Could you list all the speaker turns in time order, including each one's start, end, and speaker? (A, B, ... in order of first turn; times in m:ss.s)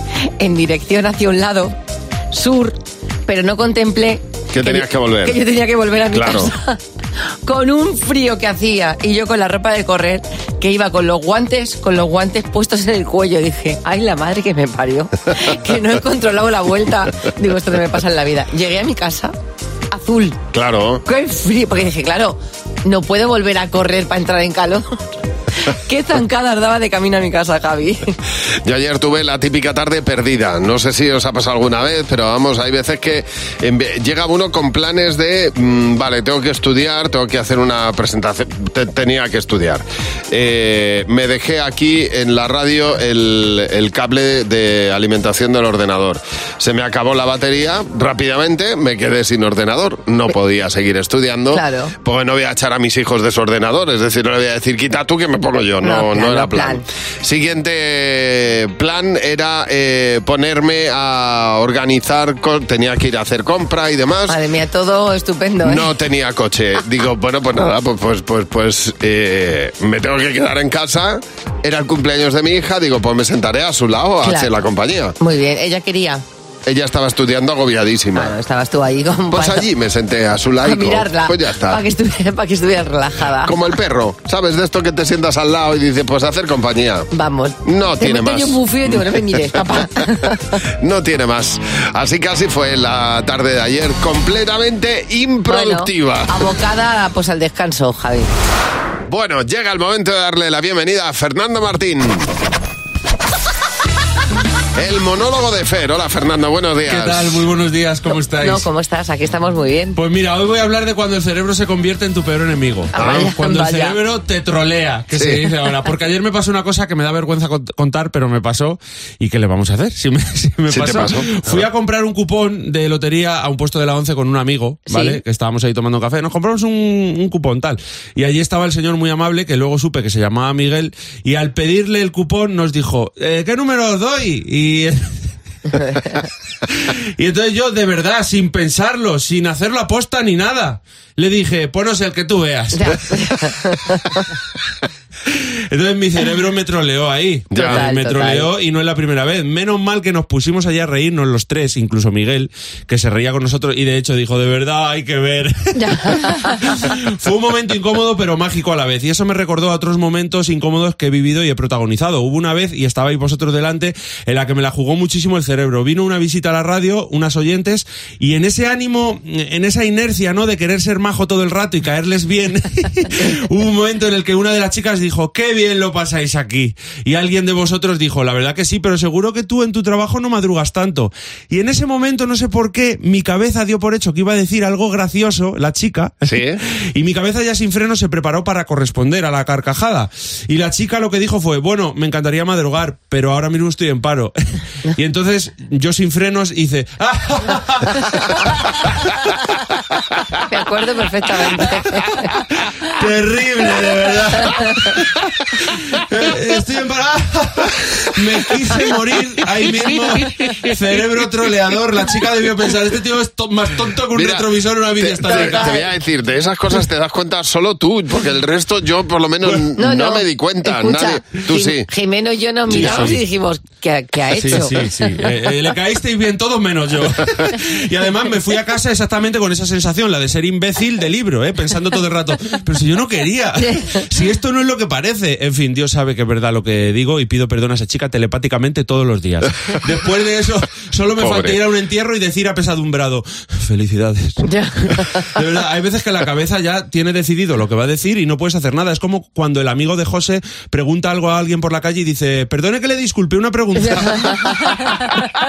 0:00.4-0:01.8 A
0:02.3-0:06.8 A
0:04.5-0:05.4 B
0:06.1-0:06.5 B
0:07.4-0:19.3 A
0:19.9-0:20.4 A
0:20.5-0:21.0 B
0:21.1-0:25.0 A
0:25.6-0:28.1 A
0:28.6-1:04.4 B
0:51.5-0:51.9 A
0:55.8-0:56.8 A
1:04.3-1:05.9 A
1:05.6-1:15.2 B
1:14.2-1:14.5 A
1:15.2-1:16.2 A
1:16.7-1:18.3 B
1:18.2-1:19.7 A
1:19.3-1:21.8 B
1:20.6-1:23.5 A
1:23.4-1:27.1 B
1:27.1-1:30.6 A
1:27.6-1:29.6 B
1:30.8-1:36.4 B
1:35.5-1:38.3 A
1:39.1-1:42.3 B
1:44.8-1:47.4 B
1:46.9-1:48.7 C
1:48.4-1:50.0 A
1:50.0-2:15.1 C
1:52.9-1:54.0 A
1:53.0-1:53.3 B
1:55.1-1:55.5 B
2:00.7-2:01.7 B
2:04.9-2:05.2 A
2:17.2-2:23.0 C
2:22.7-2:24.0 A
2:25.7-2:36.4 C
2:27.5-2:27.9 B
2:27.6-2:28.5 A
2:35.8-2:36.5 A
2:37.1-3:06.2 C
3:06.2-3:06.6 B
3:07.0-3:14.4 C
3:15.0-3:17.9 C
3:20.5-3:22.2 A
3:23.0-3:24.8 C
3:26.1-3:35.7 C
3:34.1-3:41.9 B
3:35.2-3:35.9 A
3:39.8-3:45.1 A
3:42.7-3:43.2 B
3:42.7-3:43.2 C
3:44.4-4:04.4 C
4:01.2-4:01.6 B
4:04.4-4:04.8 A
4:05.0-4:14.5 C
4:13.8-4:14.4 A